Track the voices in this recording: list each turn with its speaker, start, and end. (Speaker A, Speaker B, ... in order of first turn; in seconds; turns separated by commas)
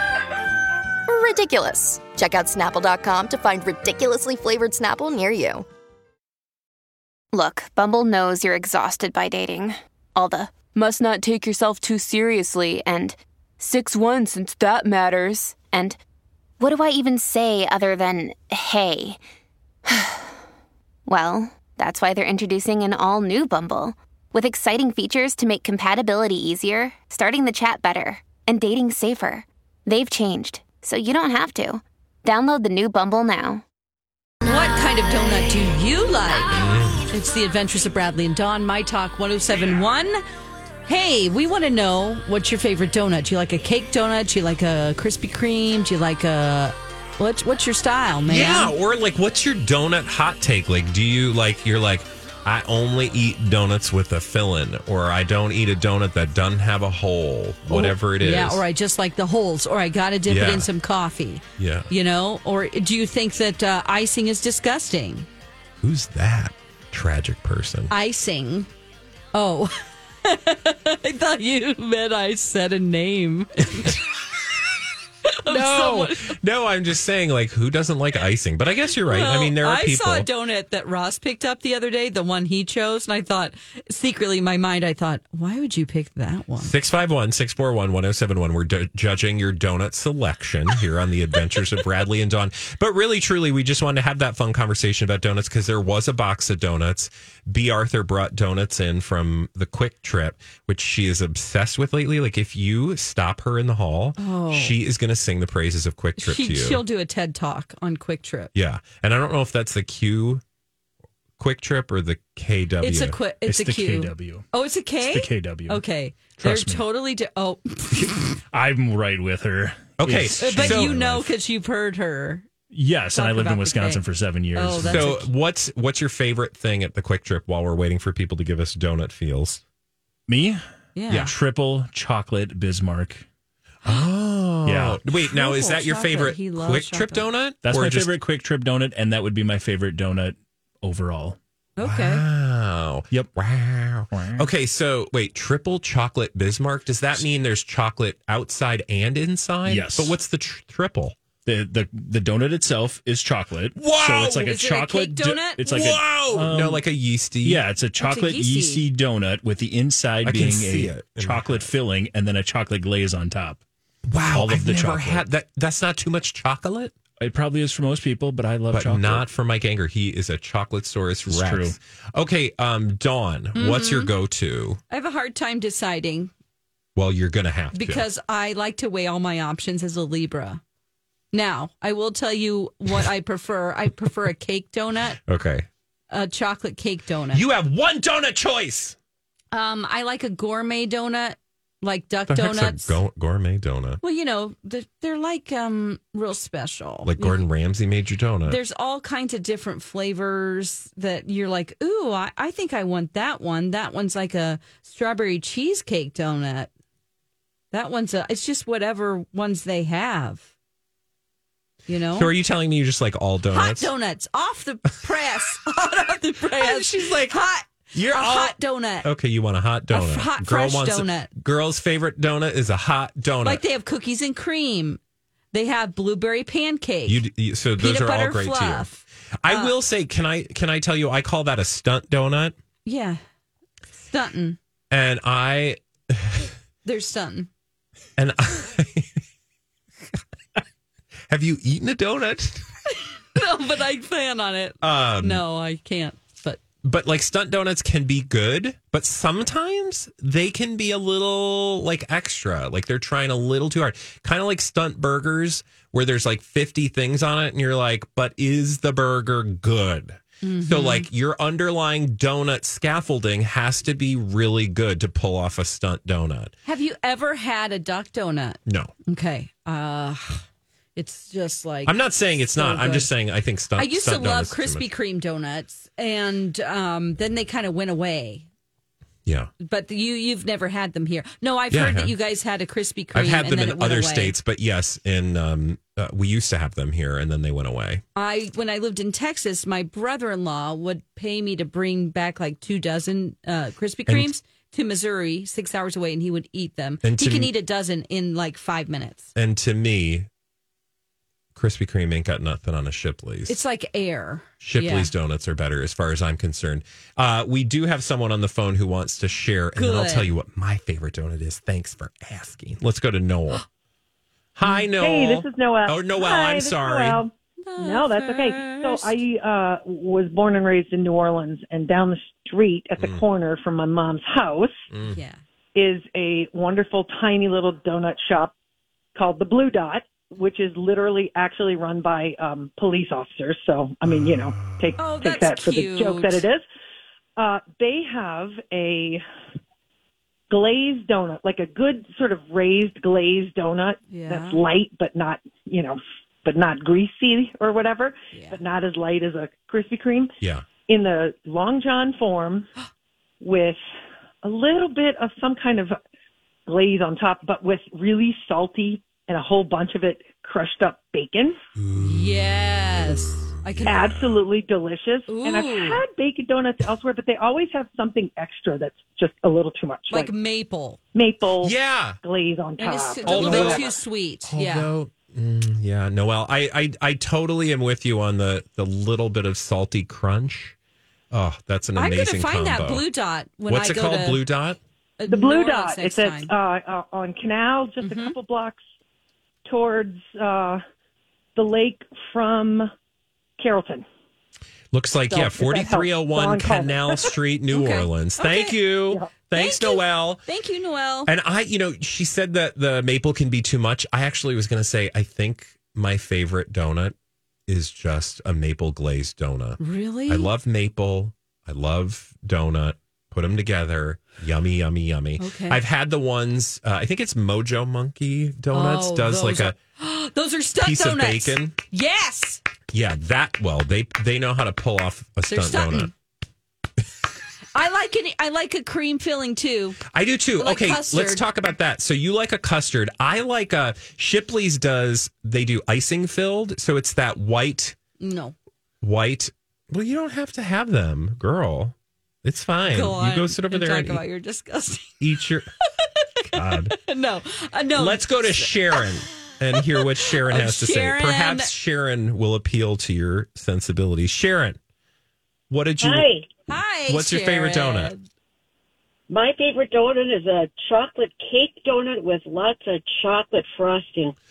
Speaker A: 1.1-5.6, Speaker B: 7.3-16.0, Speaker B: 16.6-19.2, Speaker B: 19.9-20.3, Speaker B: 21.1-33.6, Speaker C: 34.4-40.2, Speaker D: 36.5-37.1, Speaker C: 40.9-48.7, Speaker D: 48.3-58.6, Speaker C: 57.7-65.3, Speaker D: 60.2-60.7, Speaker D: 61.6-61.9, Speaker D: 65.8-67.9, Speaker C: 67.9-68.7, Speaker C: 69.3-74.0, Speaker C: 75.3-76.3, Speaker D: 75.5-80.3, Speaker C: 79.1-86.7, Speaker D: 86.6-106.8, Speaker C: 104.2-104.8, Speaker C: 106.2-108.5, Speaker D: 108.5-110.4, Speaker D: 111.4-113.2, Speaker C: 112.8-118.3, Speaker E: 113.5-115.8, Speaker E: 116.4-116.8, Speaker E: 118.5-121.1, Speaker D: 120.0-121.3, Speaker C: 120.4-122.5, Speaker E: 122.7-125.2, Speaker C: 123.1-124.0, Speaker C: 124.5-125.3, Speaker D: 124.8-129.6, Speaker E: 130.3-133.2, Speaker C: 130.9-131.3, Speaker D: 131.1-131.3, Speaker D: 133.8-138.1, Speaker E: 134.7-135.0, Speaker C: 135.3-137.3, Speaker E: 137.6-141.4, Speaker C: 141.8-142.2, Speaker D: 141.8-151.2, Speaker E: 144.1-144.5, Speaker E: 149.7-150.2, Speaker E: 151.4-156.8, Speaker D: 153.8-154.5, Speaker C: 154.3-155.6, Speaker D: 155.6-157.6, Speaker E: 157.4-163.6, Speaker C: 158.0-158.8, Speaker D: 160.2-161.7, Speaker D: 164.1-166.9, Speaker E: 164.3-165.2, Speaker E: 167.2-169.2, Speaker D: 168.7-174.8, Speaker E: 171.3-171.8, Speaker C: 173.5-174.1, Speaker C: 174.9-176.3, Speaker D: 176.9-178.0, Speaker C: 177.7-180.6, Speaker C: 181.3-185.2, Speaker D: 185.2-185.7, Speaker C: 186.1-187.4, Speaker D: 187.3-188.9, Speaker C: 189.5-193.0, Speaker D: 192.3-194.0, Speaker C: 194.0-197.4, Speaker D: 197.0-198.6, Speaker C: 198.4-206.7, Speaker C: 207.7-210.5, Speaker C: 211.9-212.3, Speaker D: 212.1-213.9, Speaker C: 213.5-219.1, Speaker D: 216.6-217.4, Speaker D: 217.9-223.6, Speaker C: 219.9-221.3, Speaker C: 223.4-225.0, Speaker C: 225.5-227.2, Speaker D: 227.1-228.9, Speaker C: 227.8-229.7, Speaker D: 229.4-232.5, Speaker C: 232.8-233.2, Speaker C: 233.9-234.6, Speaker D: 234.9-236.5, Speaker C: 236.8-237.5, Speaker D: 238.2-239.1, Speaker D: 241.3-242.7, Speaker C: 243.3-246.6, Speaker D: 244.8-245.4, Speaker D: 246.8-266.5, Speaker C: 260.4-261.1, Speaker C: 266.6-270.4, Speaker D: 268.6-268.9, Speaker C: 270.9-273.1, Speaker D: 271.9-274.9, Speaker C: 273.8-278.4, Speaker D: 279.2-279.5, Speaker C: 279.6-284.3, Speaker D: 281.7-282.1, Speaker D: 283.1-288.0, Speaker C: 288.1-299.3, Speaker D: 294.1-294.3, Speaker D: 297.0-297.5, Speaker D: 299.3-300.3, Speaker D: 301.5-303.6, Speaker C: 303.5-305.1, Speaker D: 304.6-313.6, Speaker C: 309.7-310.3, Speaker D: 314.5-317.2, Speaker F: 314.9-324.9, Speaker C: 317.6-319.2, Speaker D: 324.9-325.2, Speaker C: 325.0-325.4, Speaker F: 325.7-328.5, Speaker F: 329.1-336.6, Speaker D: 334.1-334.9, Speaker C: 335.0-336.4, Speaker F: 337.4-339.2, Speaker F: 340.5-350.3, Speaker C: 344.1-344.6, Speaker C: 348.3-348.6, Speaker D: 350.4-350.7, Speaker F: 350.9-352.7, Speaker F: 353.4-353.8, Speaker F: 354.4-356.0, Speaker F: 356.7-361.6, Speaker D: 361.8-364.4, Speaker C: 361.9-364.1, Speaker F: 363.8-370.3, Speaker C: 365.3-366.0, Speaker C: 370.1-371.0, Speaker F: 371.1-373.9, Speaker D: 371.6-372.2, Speaker C: 372.8-374.9, Speaker D: 373.2-373.8, Speaker D: 374.4-380.8, Speaker D: 381.3-383.1, Speaker C: 381.9-384.4, Speaker D: 383.7-384.8, Speaker C: 385.2-386.5, Speaker F: 385.3-388.8, Speaker C: 388.0-388.4, Speaker F: 389.6-390.8, Speaker F: 391.6-392.9, Speaker F: 393.6-394.1, Speaker D: 394.9-400.4, Speaker F: 395.3-397.3, Speaker C: 397.7-398.8, Speaker C: 399.5-401.3, Speaker D: 401.3-407.1, Speaker D: 407.7-419.8, Speaker C: 409.8-410.5, Speaker C: 415.4-415.8, Speaker C: 418.7-422.6, Speaker D: 420.8-421.7, Speaker D: 422.9-426.1, Speaker C: 425.5-426.1, Speaker C: 427.7-430.0, Speaker D: 430.1-437.9, Speaker C: 430.6-431.4, Speaker C: 438.2-438.5, Speaker D: 439.0-444.2, Speaker C: 442.9-445.2, Speaker D: 445.2-445.7, Speaker C: 446.0-449.1, Speaker D: 446.5-446.9, Speaker D: 447.9-454.8, Speaker C: 449.7-451.7, Speaker D: 455.7-458.1, Speaker G: 456.0-456.5, Speaker C: 456.7-458.2, Speaker G: 459.3-464.3